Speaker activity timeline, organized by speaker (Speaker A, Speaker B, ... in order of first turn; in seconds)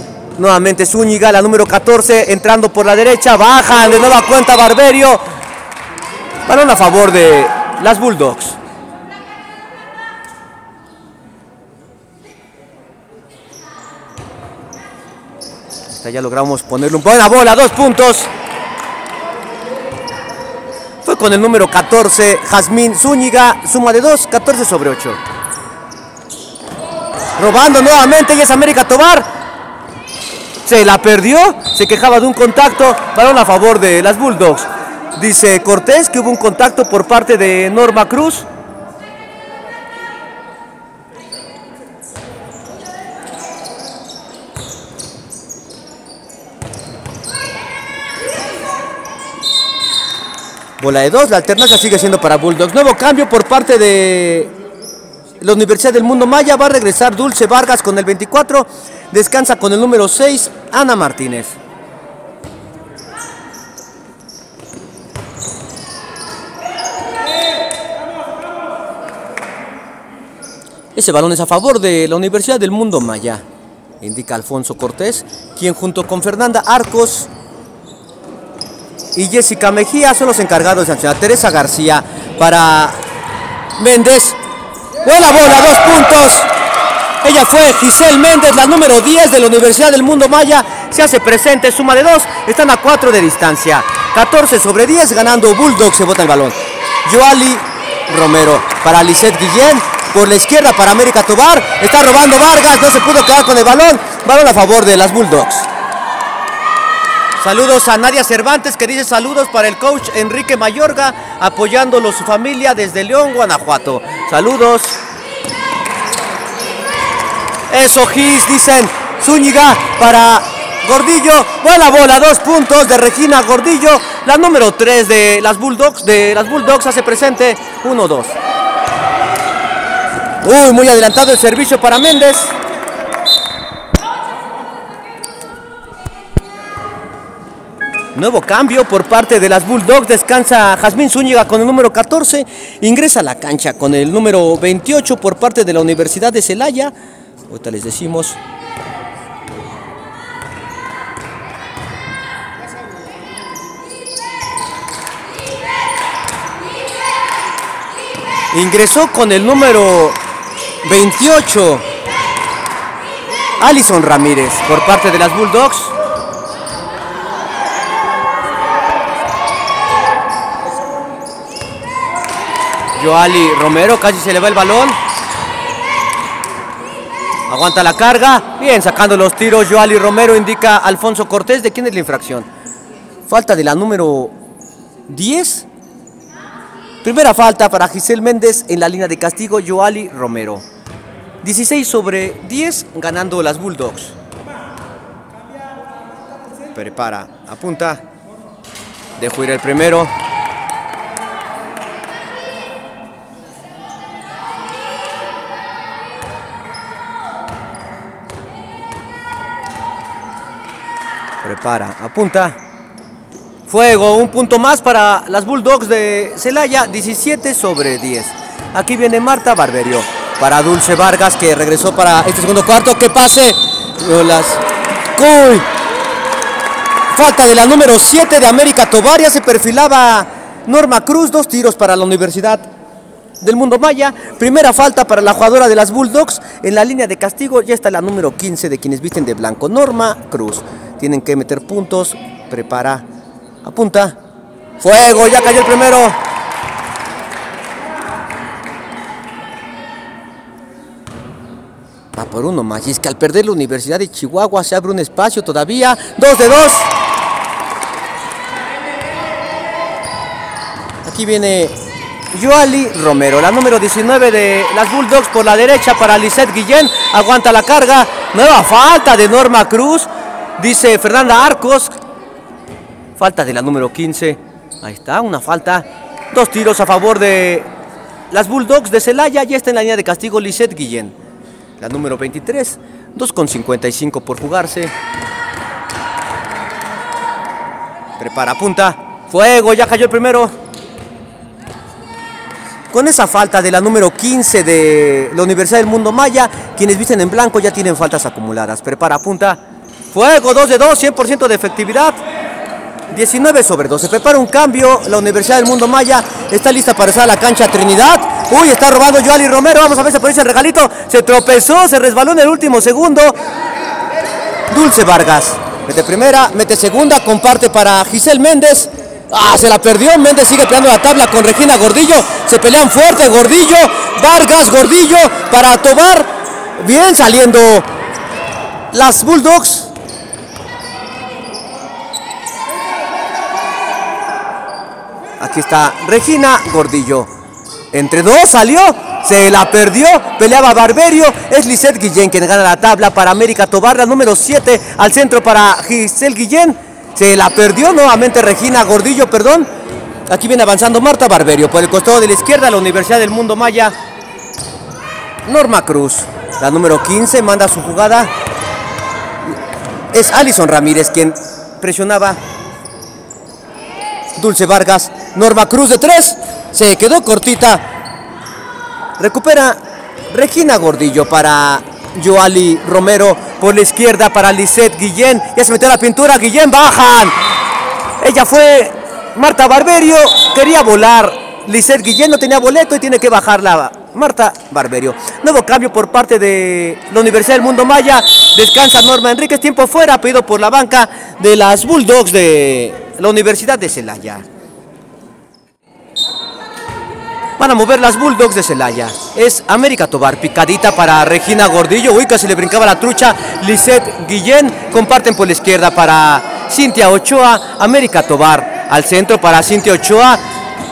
Speaker A: 0.4-5.2, 6.5-8.6, 16.0-18.3, 21.0-25.2, 27.4-29.3, 30.6-38.5, 50.8-54.5, 55.4-61.5, 71.0-73.4, 74.0-77.3, 79.2-83.0, 83.8-84.4, 85.0-86.5, 87.2-105.7, 107.4-115.0, 117.7-128.4, 130.4-132.6, 138.2-146.9, 147.5-148.4, 158.5-160.2, 160.8-161.8, 163.6-165.9, 173.0-175.0, 177.5-182.5, 183.3-184.3, 185.1-185.7, 187.0-190.7, 191.4-194.2, 196.7-198.0, 199.2-200.1, 211.4-212.6, 213.7-224.6, 225.1-225.7, 227.1-232.7, 233.4-243.1, 243.6-244.2, 244.8-246.2, 252.1-256.9, 261.1-261.7, 262.3-271.9, 273.2-277.7, 278.3-281.1, 281.8-284.9, 288.2-290.5, 292.9-299.6, 300.1-302.2, 303.1-313.4, 314.7-327.9, 328.9-329.9, 335.4-337.3, 337.9-349.7, 350.3-353.9, 355.4-358.3, 360.1-362.4, 364.4-367.8, 369.2-369.8, 370.3-377.4, 378.2-394.4, 397.6-410.4